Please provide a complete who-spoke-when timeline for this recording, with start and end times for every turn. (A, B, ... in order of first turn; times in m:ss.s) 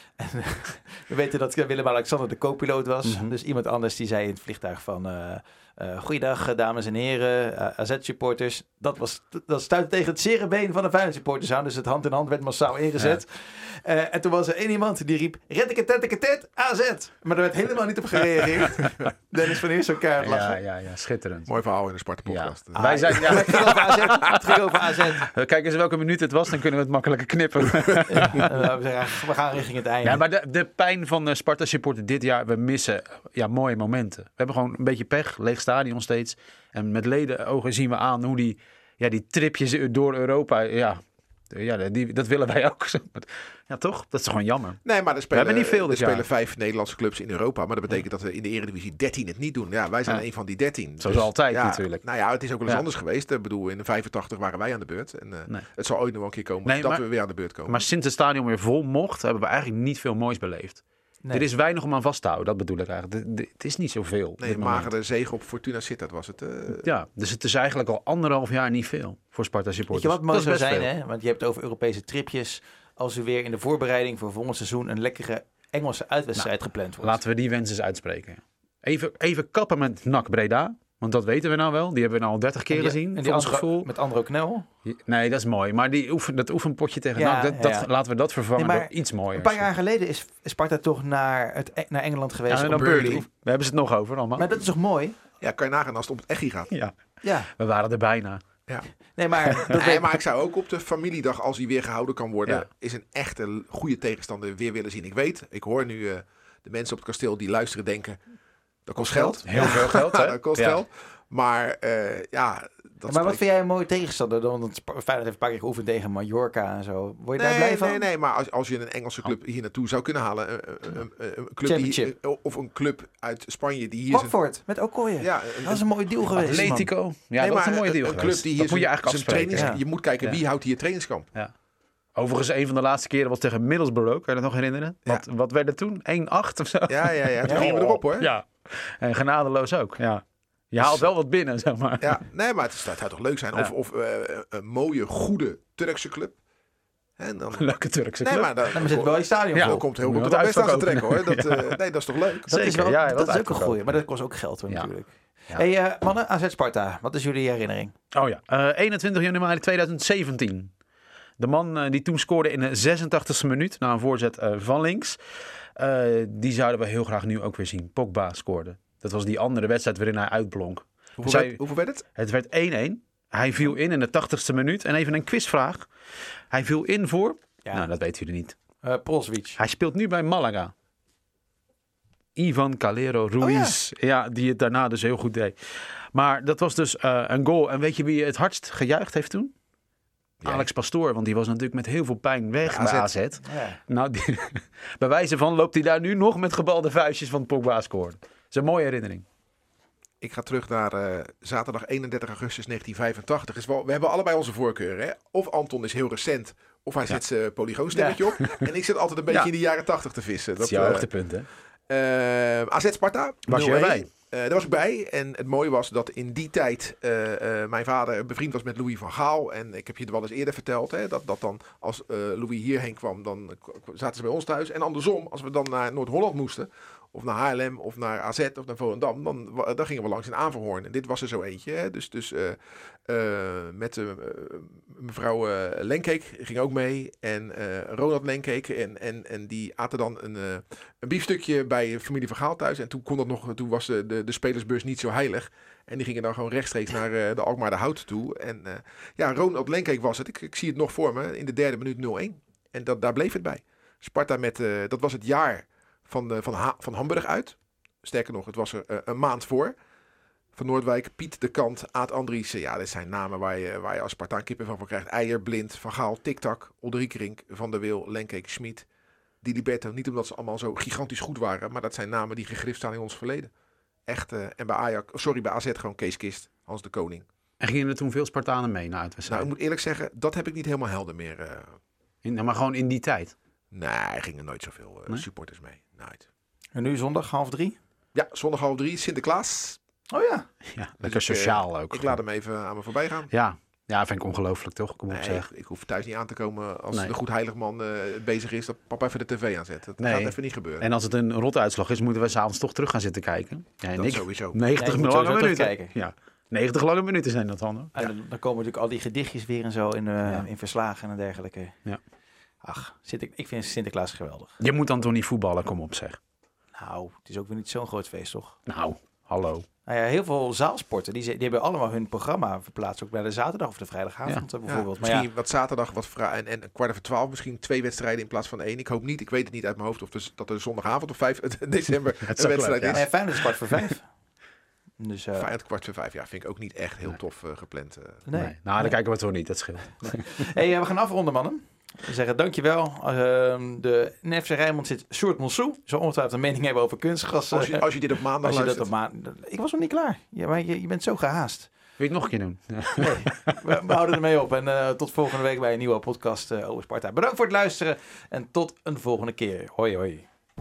0:00.2-0:20.6 A
0:03.0-0:03.3 B
0:20.2-0:21.5 B
0:21.4-0:23.8 C
0:22.2-0:24.7 B
0:22.7-0:25.3 A
0:25.2-0:28.5 B
0:27.9-0:28.4 C
0:28.1-0:30.2 A
0:30.0-0:44.8 B
0:44.8-0:57.8 C
0:45.3-0:46.2 B
0:51.0-0:52.0 B
0:56.6-0:57.0 B
0:57.6-1:04.9 B
1:04.4-1:06.9 C
1:06.8-1:10.9 B
1:09.9-1:17.2 A
1:17.0-1:23.9 B
1:22.7-1:24.6 A
1:24.8-1:29.6 B
1:27.2-1:27.9 A
1:28.6-1:33.2 A
1:32.5-1:34.5 B
1:34.4-1:35.2 A
1:35.4-1:36.7 C
1:37.2-1:37.5 A
1:37.5-1:38.4 B
1:39.2-1:40.2 A
1:39.5-1:39.8 B
1:39.6-1:48.2 C
1:48.8-1:53.4 C
1:49.0-1:49.9 A
1:49.4-1:50.8 B
1:53.1-1:58.0 A
1:57.4-2:04.4 C
2:01.6-2:02.1 A
2:04.1-2:06.9 A
2:05.2-2:05.9 C
2:06.3-2:10.4 B
2:07.4-2:11.3 C
2:09.5-2:09.8 A
2:12.2-2:22.2 B
2:16.9-2:18.3 C
2:17.4-2:17.7 A
2:20.8-2:21.1 C
2:22.0-2:26.4 C
2:27.2-2:27.7 C
2:27.5-2:29.0 B
2:28.2-2:32.5 C
2:28.7-2:29.8 A
2:29.5-2:31.8 B
2:32.4-2:34.0 B
2:32.5-2:37.9 A
2:38.1-2:40.7 B
2:41.4-2:45.2 B
2:45.8-2:51.6 B
2:51.2-2:52.0 C
2:52.1-2:55.8 B
2:56.5-2:58.6 B
2:58.8-2:59.6 A
2:59.6-3:00.7 B
3:02.4-3:09.5 B
3:03.4-3:03.8 A
3:10.4-3:10.7 C
3:10.4-3:19.2 B
3:12.6-3:13.1 C
3:13.4-3:13.8 A
3:20.2-3:31.1 C
3:28.1-3:28.6 B
3:30.6-3:31.5 B
3:31.9-4:19.7 C
3:33.5-3:34.1 B
4:20.5-4:28.8 C
4:29.4-4:33.5 C
4:34.1-4:37.2 C
4:37.6-4:39.5 B
4:39.3-4:41.7 C
4:42.2-4:43.3 B
4:43.7-4:46.2 C
4:46.8-4:47.8 A
4:48.1-4:49.8 C
4:50.1-4:50.5 A
4:50.7-4:52.2 B
4:51.0-4:53.3 C
4:53.3-4:55.5 B
4:55.1-5:00.9 C
5:00.0-5:07.9 B
5:04.0-5:04.6 C
5:04.8-5:05.9 A
5:07.9-5:11.7 A
5:12.6-5:14.6 A
5:14.6-5:16.2 B
5:16.8-5:18.6 A
5:18.7-5:19.6 B
5:19.8-5:25.2 A
5:24.6-5:33.1 C
5:32.2-5:33.1 B
5:32.9-5:34.0 A
5:35.0-5:35.5 A
5:35.4-5:38.2 C
5:38.2-5:39.0 A
5:38.3-5:40.4 B
5:40.0-5:51.7 A
5:47.5-5:48.9 C
5:52.0-5:53.9 B
5:53.0-6:00.2 A